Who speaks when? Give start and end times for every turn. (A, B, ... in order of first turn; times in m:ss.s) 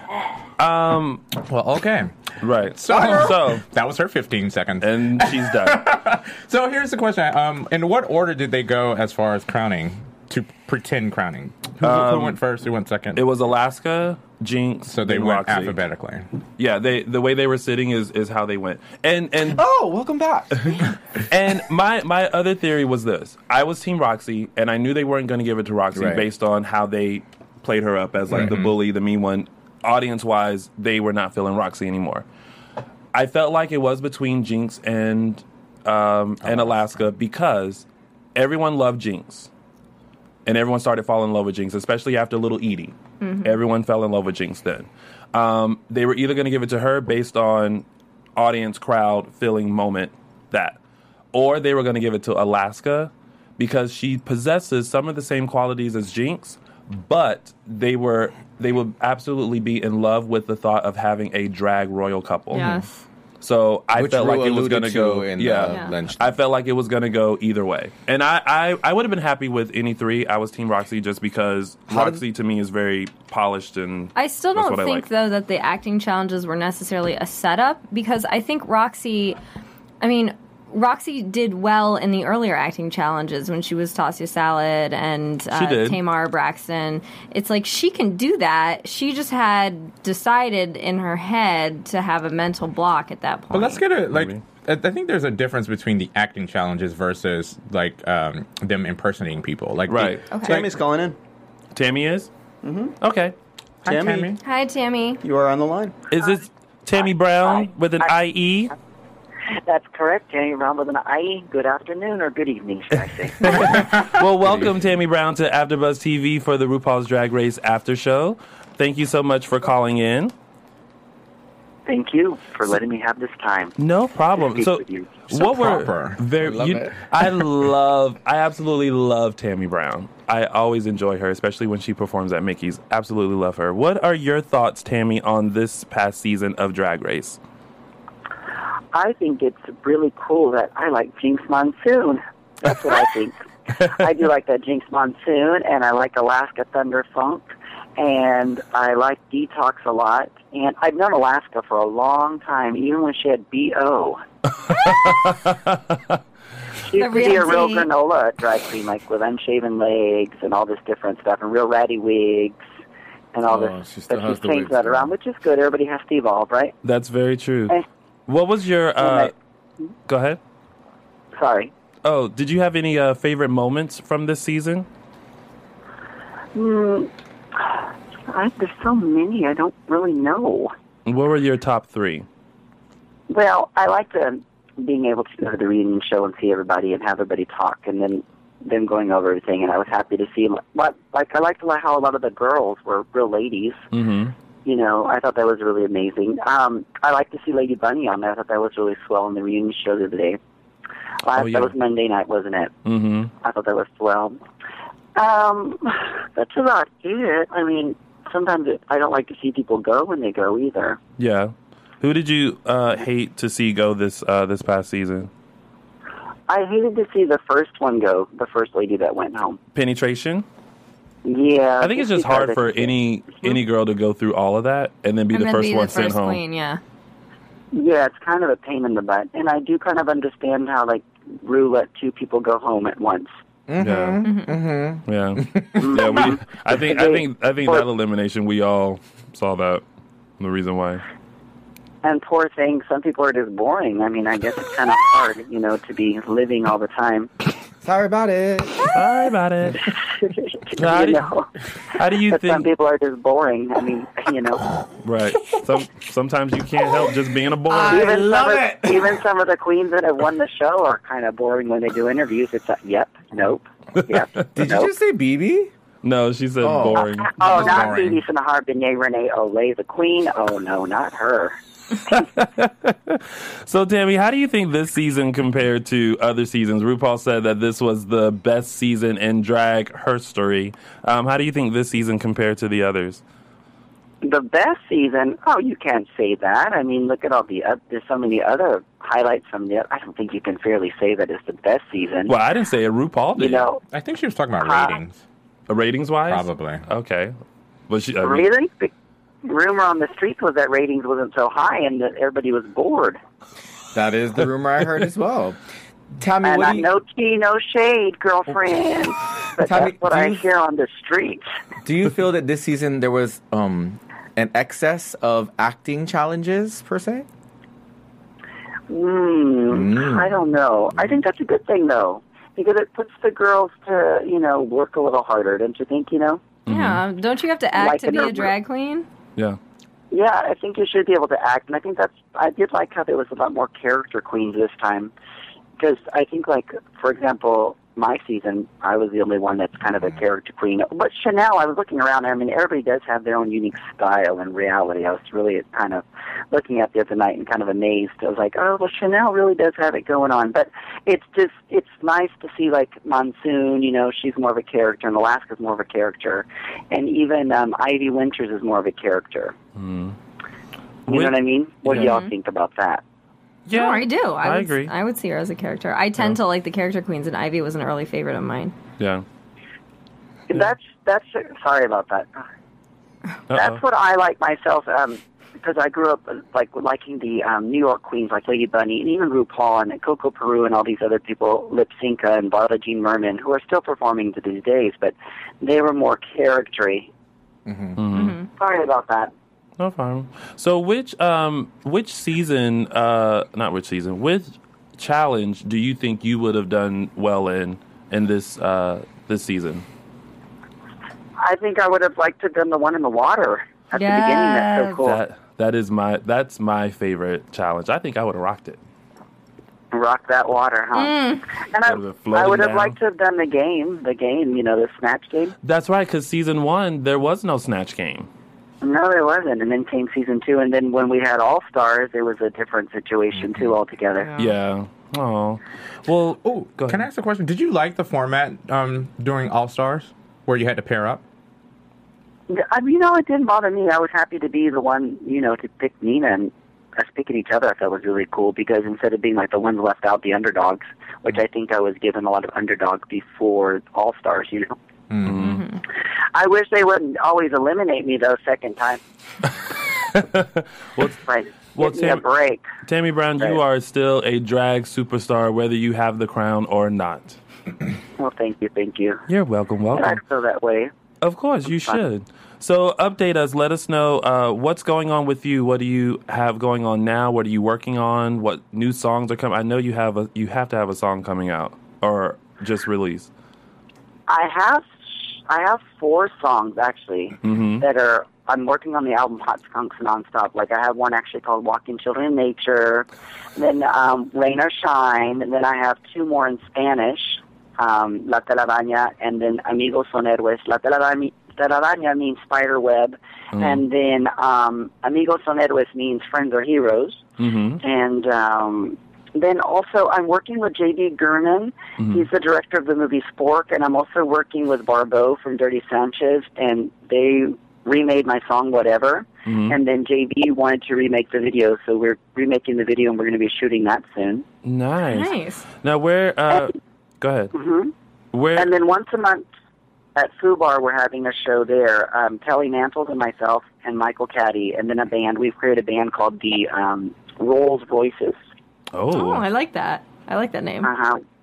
0:00.6-0:01.3 A
0:01.4-0:02.1 B
0:02.4-0:03.6 A
0:02.7-0:13.2 B
0:04.8-0:05.9 A
0:11.8-0:12.4 A
0:13.2-0:15.8 A
0:14.9-0:16.3 B
0:16.6-0:19.6 A
0:19.5-0:20.8 C
0:21.3-0:32.2 A
0:25.9-0:26.2 C
0:28.3-0:28.7 B
0:33.1-0:39.5 A
0:40.5-0:47.8 A
0:43.2-0:43.5 D
0:48.4-0:50.8 A
0:51.3-1:02.8 A
1:02.5-1:02.9 D
1:03.4-1:15.0 A
1:04.0-1:06.3 C
1:11.9-1:12.2 C
1:14.2-1:19.4 D
1:20.0-1:33.9 D
1:25.5-1:26.0 A
1:33.5-1:40.7 B
1:34.1-1:34.4 A
1:39.9-1:40.2 A
1:40.5-1:41.2 E
1:41.8-1:42.3 A
1:42.6-1:43.0 E
1:43.0-1:43.4 A
1:43.8-1:44.4 B
1:43.9-1:44.3 E
1:44.4-1:45.2 D
1:45.2-1:46.0 E
1:46.1-1:48.7 A
1:47.4-1:48.1 F
1:49.7-1:53.5 F
1:53.4-2:00.3 A
1:53.4-1:54.2 B
2:01.9-2:03.7 F
2:03.8-2:17.4 A
2:04.4-2:05.2 F
2:05.3-2:06.2 B
2:06.3-2:07.0 C
2:18.9-2:34.2 F
2:34.7-2:36.0 A
2:36.8-2:42.6 F
2:36.9-2:37.9 D
2:43.3-2:46.8 F
2:43.5-2:45.1 C
2:46.8-2:49.3 A
2:49.0-2:49.3 F
2:50.1-2:50.4 A
2:51.4-2:51.7 F
2:52.0-2:54.9 A
2:56.6-2:57.8 F
2:58.3-3:00.7 F
3:01.1-3:02.3 A
3:03.3-3:13.8 F
3:13.9-3:14.4 A
3:14.6-3:20.4 F
3:21.2-3:22.7 F
3:21.4-3:21.7 A
3:22.8-3:23.3 A
3:23.4-3:24.4 F
3:25.2-3:31.0 F
3:31.2-3:35.3 A
3:36.5-3:39.6 F
3:39.8-3:40.5 A
3:41.2-3:42.9 F
3:41.8-3:46.4 A
3:45.3-3:46.8 D
3:47.7-3:53.3 F
3:53.7-3:56.0 C
3:53.8-3:54.2 A
3:54.2-3:54.6 D
3:55.1-3:59.8 A
3:55.8-3:57.9 F
4:00.4-4:01.0 A
4:02.0-4:07.3 F
4:07.8-4:09.0 C
4:08.9-4:09.9 A
4:10.4-4:11.5 F
4:10.8-4:11.3 A
4:12.0-4:12.7 A
4:12.2-4:14.6 F
4:15.0-4:18.2 A
4:17.7-4:19.2 C
4:17.8-4:24.9 F
4:24.6-4:25.7 C
4:26.0-4:27.6 A
4:26.6-4:28.1 C
4:27.0-4:31.6 F
4:27.4-4:28.2 B
4:32.1-4:43.2 A
4:44.2-4:52.3 F
4:52.3-4:53.7 A
4:53.4-4:53.8 F
4:53.9-4:55.2 B
4:54.6-4:55.0 F
4:55.7-4:57.4 A
4:56.3-4:56.8 B
4:57.9-4:58.5 A
4:58.2-4:58.9 F
4:59.4-5:03.2 F
5:03.9-5:05.6 C
5:06.2-5:06.9 C
5:06.4-5:11.5 F
5:09.6-5:10.4 C
5:11.8-5:17.3 C
5:18.9-5:26.4 F
5:19.7-5:20.4 C
5:26.7-5:27.0 A
5:26.7-5:29.1 D
5:27.7-5:28.5 F
5:30.1-5:35.1 F
5:35.8-5:59.6 F
5:59.8-6:00.2 A
6:01.1-6:03.0 F
6:01.1-6:02.1 A
6:02.0-6:02.3 D
6:03.7-6:04.9 A
6:03.7-6:08.7 D
6:09.0-6:09.2 A
6:10.5-6:12.4 F
6:13.5-6:13.8 A
6:13.5-6:27.1 F
6:27.7-6:28.0 C
6:28.0-6:28.4 A
6:28.1-6:28.5 D
6:28.6-6:29.3 F
6:29.8-6:39.8 A
6:41.4-6:45.2 F
6:44.0-6:45.0 D
6:45.0-6:48.8 A
6:49.9-6:55.6 F
6:51.0-6:51.4 D
6:51.8-6:53.0 A
6:55.6-6:58.3 A
6:58.8-7:04.3 F
7:04.4-7:07.1 A
7:06.4-7:11.2 B
7:12.5-7:24.8 F
7:25.1-7:25.6 B
7:25.2-7:25.7 A
7:25.4-7:25.8 D
7:26.3-7:29.0 F
7:30.0-7:31.2 A
7:31.1-7:32.6 F
7:31.7-7:32.2 A
7:32.8-7:37.4 A
7:38.2-7:39.2 F
7:39.3-7:40.2 A
7:39.9-7:40.9 F
7:41.2-7:53.3 A
7:41.7-7:42.0 F
7:54.3-8:17.2 F
7:57.4-7:57.8 A
8:13.5-8:13.8 A
8:17.4-8:17.8 A
8:17.8-8:34.5 F
8:22.0-8:22.3 A
8:29.5-8:29.8 A
8:34.6-8:37.5 A
8:35.1-8:35.6 D
8:37.5-8:37.9 F
8:38.3-8:38.7 A
8:38.6-8:39.4 F
8:40.2-8:48.4 F
8:48.9-8:49.4 A
8:49.1-8:50.9 D
8:50.8-8:51.2 F